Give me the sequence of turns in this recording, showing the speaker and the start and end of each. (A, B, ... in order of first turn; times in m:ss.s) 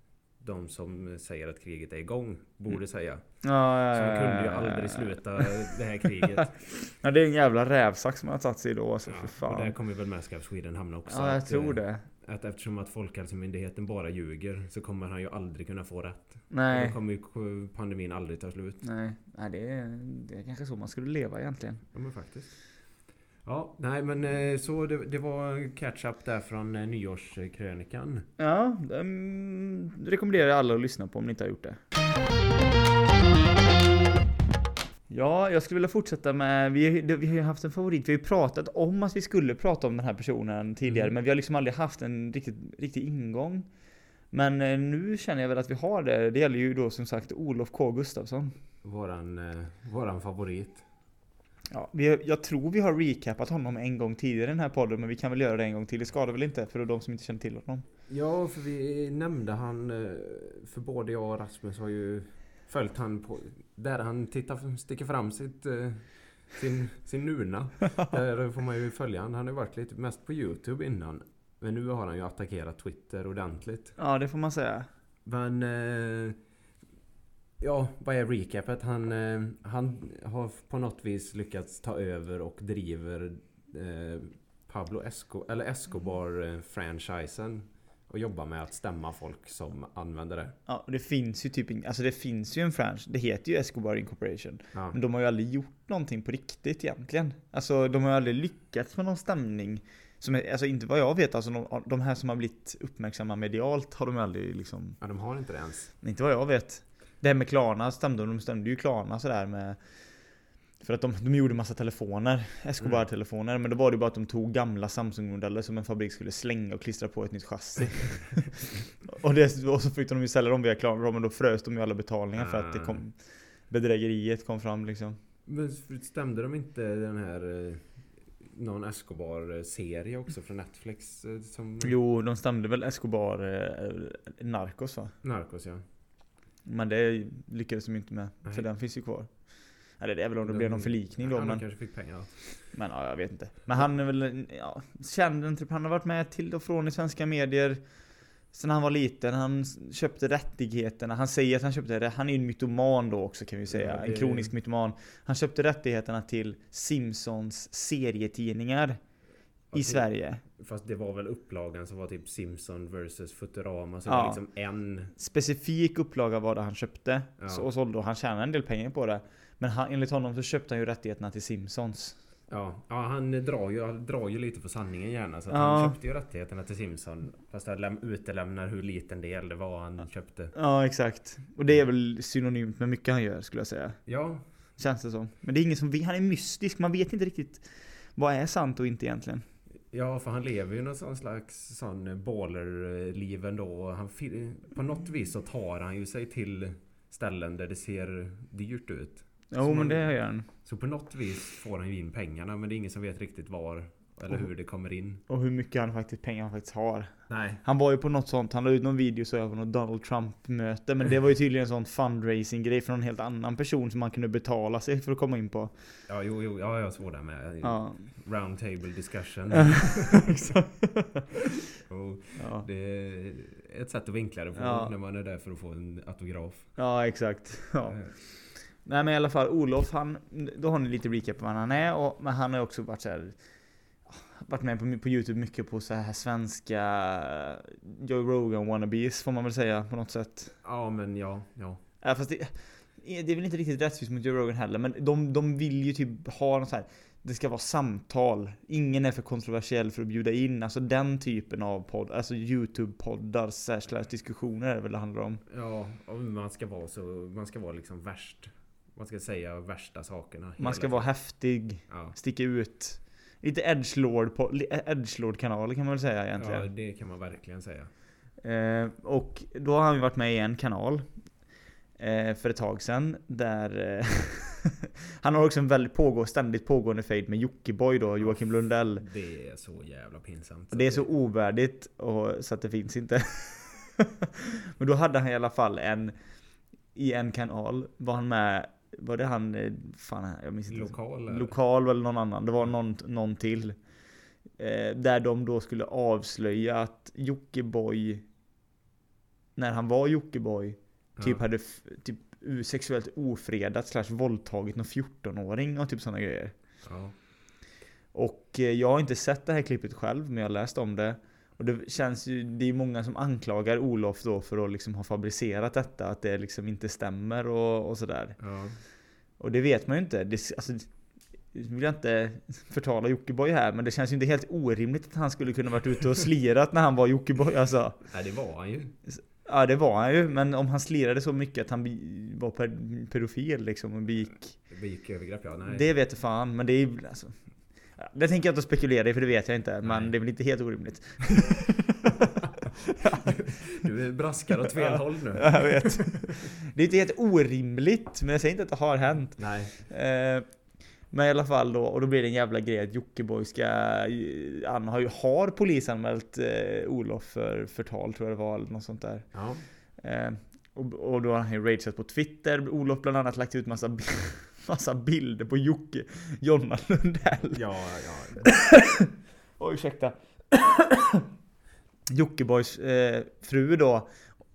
0:00.4-0:03.2 A
0:03.4-0:05.5 B
0:03.9-0:06.5 A
0:06.2-0:09.7 B
0:09.0-0:18.8 A
0:11.1-0:12.0 B
0:16.5-0:17.0 B
0:18.8-0:21.8 B
0:21.9-0:22.6 A
0:23.4-0:28.3 A
0:28.4-0:31.8 B
0:35.1-0:43.7 B
0:40.8-0:41.1 A
0:44.3-0:48.5 B
0:48.8-0:50.8 A
0:51.7-0:57.8 B
0:58.1-1:13.9 A
1:14.0-1:14.9 B
1:15.2-1:16.4 A
1:17.6-1:30.5 A
1:30.7-1:45.0 B
1:45.0-1:45.9 A
1:46.0-1:49.8 B
1:50.8-2:05.2 B
2:02.4-2:03.0 A
2:05.4-2:11.9 A
2:11.8-2:15.1 B
2:15.2-2:15.8 A
2:16.6-2:19.4 B
2:20.0-2:21.6 B
2:20.4-2:22.4 A
2:22.7-2:27.8 B
2:28.5-2:39.0 B
2:33.7-2:34.5 A
2:39.7-2:45.1 A
2:39.7-2:40.4 B
2:44.0-2:44.4 B
2:45.1-2:52.2 B
2:47.4-2:47.7 A
2:52.5-3:00.5 A
2:55.5-2:56.0 B
3:00.5-3:04.0 B
3:04.1-3:04.4 A
3:04.8-3:09.4 B
3:09.9-3:25.2 A
3:19.5-3:20.5 B
3:25.3-3:35.7 B
3:27.3-3:27.6 A
3:36.1-3:40.3 A
3:37.6-3:38.1 B
3:39.5-3:41.3 B
3:41.9-3:46.7 A
3:42.4-3:42.6 B
3:44.5-3:44.9 B
3:46.8-3:53.4 B
3:47.9-3:48.1 A
3:54.1-4:00.5 B
4:00.6-4:01.8 A
4:02.0-4:15.4 B
4:15.5-4:21.1 A
4:20.6-4:26.7 B
4:21.9-4:22.1 A
4:26.4-4:27.9 A
4:28.4-4:31.1 B
4:32.0-4:39.0 B
4:39.0-4:41.0 A
4:40.7-4:46.1 B
4:46.9-4:53.8 B
4:50.7-4:51.5 A
4:54.6-4:58.2 B
4:59.6-5:06.5 B
5:01.2-5:01.4 A
5:06.8-5:07.1 A
5:08.1-5:18.4 B
5:18.4-5:18.8 A
5:19.4-5:20.9 B
5:21.5-5:28.0 B
5:28.1-5:29.0 A
5:29.1-5:34.6 B
5:34.7-5:35.9 A
5:35.7-5:37.4 B
5:38.0-5:42.1 B
5:39.8-5:40.1 A
5:43.0-5:43.3 B
5:43.0-5:46.2 A
5:44.7-5:50.4 B
5:49.4-5:49.8 A
5:51.1-5:59.3 B
5:59.3-5:59.6 A
6:00.0-6:07.6 B
6:07.5-6:08.5 A
6:08.4-6:11.2 B
6:12.1-6:14.1 B